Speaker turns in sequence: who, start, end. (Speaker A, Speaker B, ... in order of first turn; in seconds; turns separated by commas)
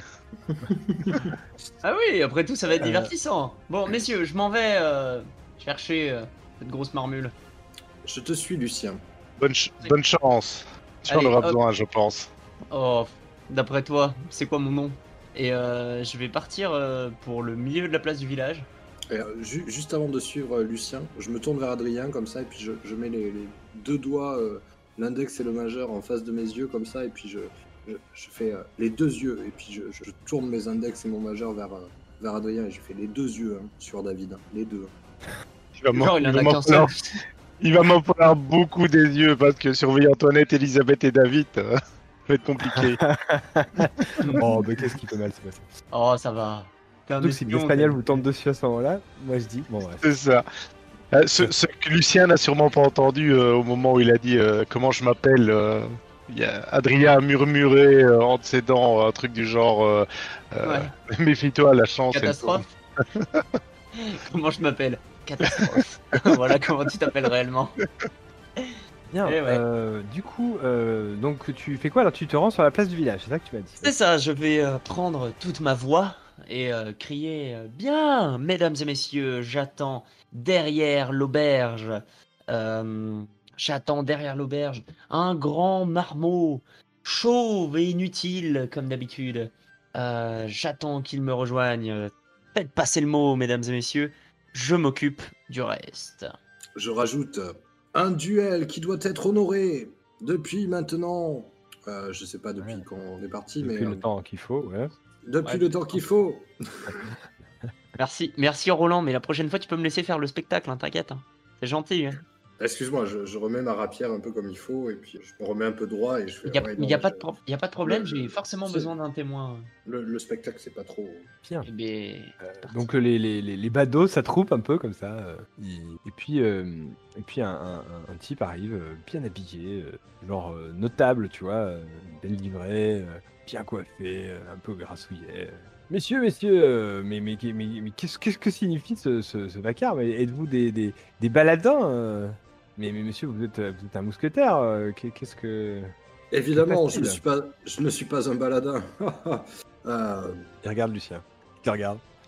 Speaker A: 0.5-1.3, Speaker B: 1.8-7.3, Speaker C: 2.8-3.1, Speaker A: 8.0-9.0, Speaker D: 9.4-12.3, Speaker B: 11.1-11.6, Speaker B: 12.7-18.7, Speaker A: 19.1-34.9, Speaker D: 35.8-37.0, Speaker B: 35.9-37.0, Speaker D: 37.6-41.7, Speaker D: 42.3-43.0, Speaker C: 42.7-45.6, Speaker B: 44.2-44.4, Speaker B: 45.9-48.2, Speaker C: 47.2-50.0, Speaker D: 50.0-50.4, Speaker D: 51.1-63.5, Speaker B: 60.6-60.9, Speaker B: 62.1-62.6, Speaker B: 64.0-67.8, Speaker C: 69.1-73.9, Speaker B: 69.2-69.6, Speaker B: 73.8-96.3, Speaker A: 96.8-104.0, Speaker C: 103.6-104.9, Speaker A: 105.2-107.0, Speaker B: 105.4-105.7, Speaker B: 108.0-112.2, Speaker A: 112.6-117.3, Speaker B: 116.5-119.7, Speaker A: 117.8-118.9, Speaker A: 119.8-121.3, Speaker B: 121.6-122.8, Speaker C: 122.4-145.9, Speaker A: 146.3-150.5, Speaker C: 146.6-147.2, Speaker C: 150.6-152.0